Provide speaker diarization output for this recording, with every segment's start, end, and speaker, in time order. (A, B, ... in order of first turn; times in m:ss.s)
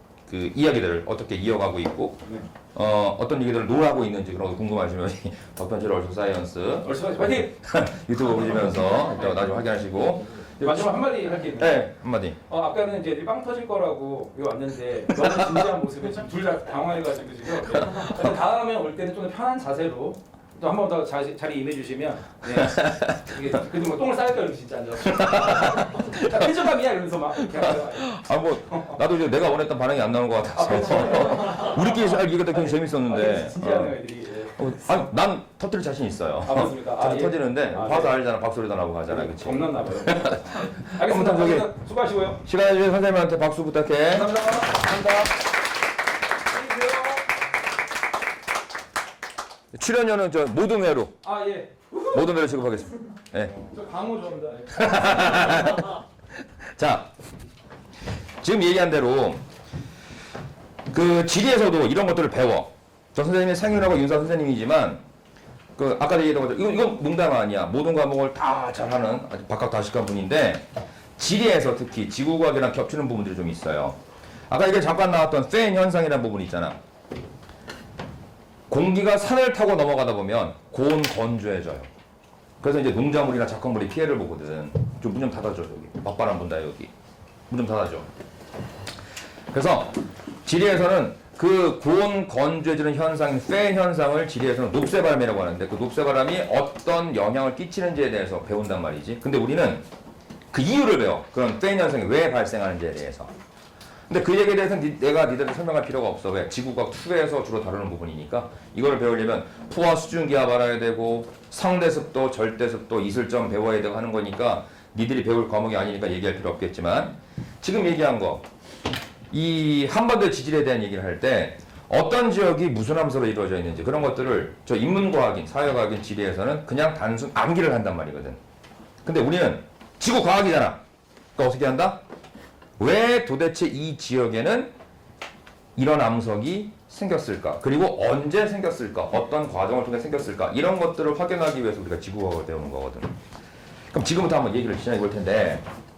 0:00.3-0:02.2 A
0:02.7-0:10.9 A
0:06.8-0:07.6 B
0:10.6-0:11.8 B
0:11.5-0:12.4 A
0:12.5-0:29.0 B
0:22.7-0:23.0 A
0:25.2-0:26.5 A
0:27.6-0:41.7 A
0:30.5-0:35.1 B
0:36.4-0:38.1 B
0:39.1-0:42.4 B
0:42.4-0:44.4 A
0:44.1-0:45.4 B
0:46.5-0:47.2 B
0:49.7-0:51.2 A
0:51.2-0:52.4 B
0:52.1-0:53.6 A
0:53.6-0:55.8 B
0:54.7-0:56.0 A
0:56.8-0:57.1 A
0:58.4-0:59.4 A
1:00.9-1:05.0 A
1:05.8-1:10.6 A
1:11.2-1:16.8 A
1:18.7-1:21.9 A
1:22.6-1:26.9 A
1:27.5-1:28.1 A
1:29.5-1:39.8 A
1:40.5-1:43.3 A
1:44.1-1:58.4 A
1:59.3-2:08.4 A
2:09.0-2:10.8 A
2:11.4-2:12.0 A
2:12.8-2:14.7 A
2:15.8-2:23.2 A
2:23.9-2:25.6 A